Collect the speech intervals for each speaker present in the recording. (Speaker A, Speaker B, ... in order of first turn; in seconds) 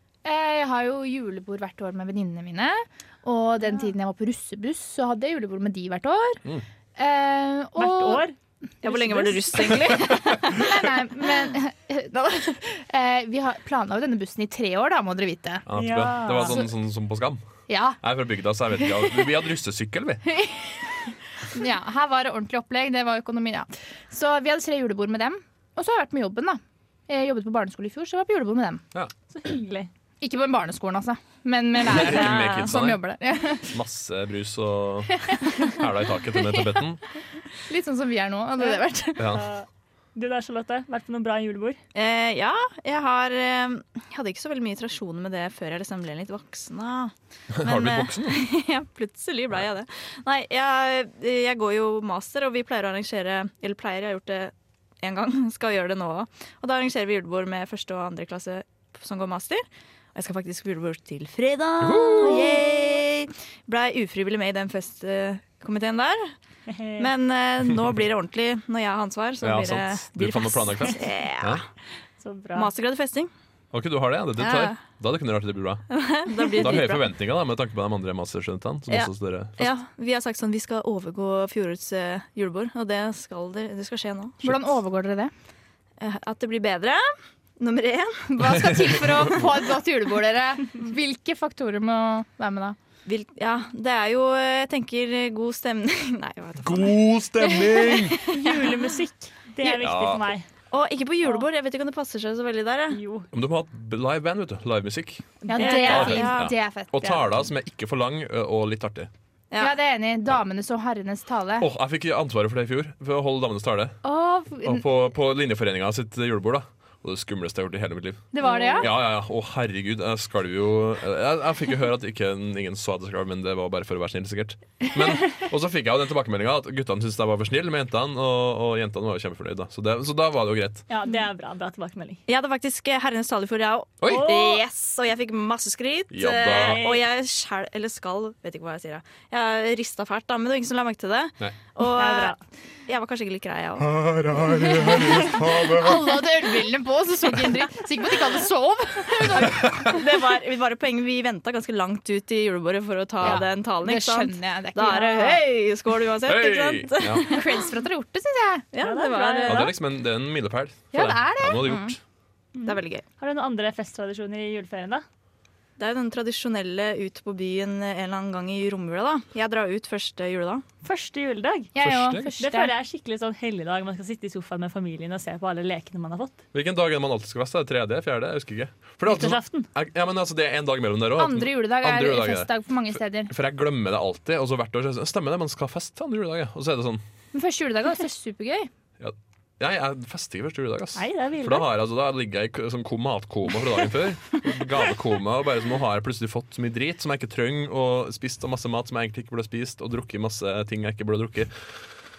Speaker A: 0.2-6.4, 7.0-8.2, 8.9-15.7, 17.7-18.0, 18.8-19.2, 20.3-28.8, 30.2-33.7, 35.2-35.8, 36.3-36.8, 37.6-39.4, 84.4-85.3, 88.2-92.8, 105.5-107.2, 109.6-111.7, 114.0-114.8, 118.3-118.9, 144.6-150.0, 153.2-155.4, 157.2-158.7, 160.9-161.9, 171.7-172.7, 181.2-183.3, 187.3-188.7
Speaker B: 7.8-8.3, 8.9-9.4, 15.7-16.6, 29.3-29.9, 39.3-41.8, 62.2-62.6, 66.7-67.1, 72.2-72.7, 98.2-100.5, 102.9-103.3, 105.5-106.4, 130.9-132.2, 134.0-134.6, 136.4-137.0, 141.8-142.4, 158.8-159.7, 162.5-165.0, 170.8-171.7, 172.4-176.4, 179.0-179.7, 190.9-191.7
Speaker C: 8.8-10.7, 32.2-32.5, 41.9-47.1, 47.6-59.6, 60.1-66.3, 67.0-71.7, 72.5-73.3, 74.4-74.8, 75.9-77.1, 78.9-84.5, 86.0-88.3, 93.0-97.0, 97.6-98.4, 100.7-103.0, 105.5-106.5, 109.5-109.8, 118.4-118.9, 132.3-142.3, 142.9-143.9, 149.3-157.7, 158.7-159.7, 162.6-163.0, 165.8-170.6
Speaker D: 15.7-17.4, 18.0-20.2, 31.8-33.0, 33.6-37.0, 39.1-39.5, 47.5-48.4, 61.8-62.5, 69.4-71.6, 73.7-75.8, 76.5-79.7, 84.4-84.8, 88.5-89.4, 96.6-98.2, 99.6-100.3, 103.3-109.1, 111.6-114.0, 114.6-130.8, 134.0-134.3, 136.1-136.9, 143.8-146.1, 149.3-150.0, 153.2-153.4, 156.2-157.3, 159.5-162.0, 171.8-172.3, 176.5-187.0, 189.0-201.8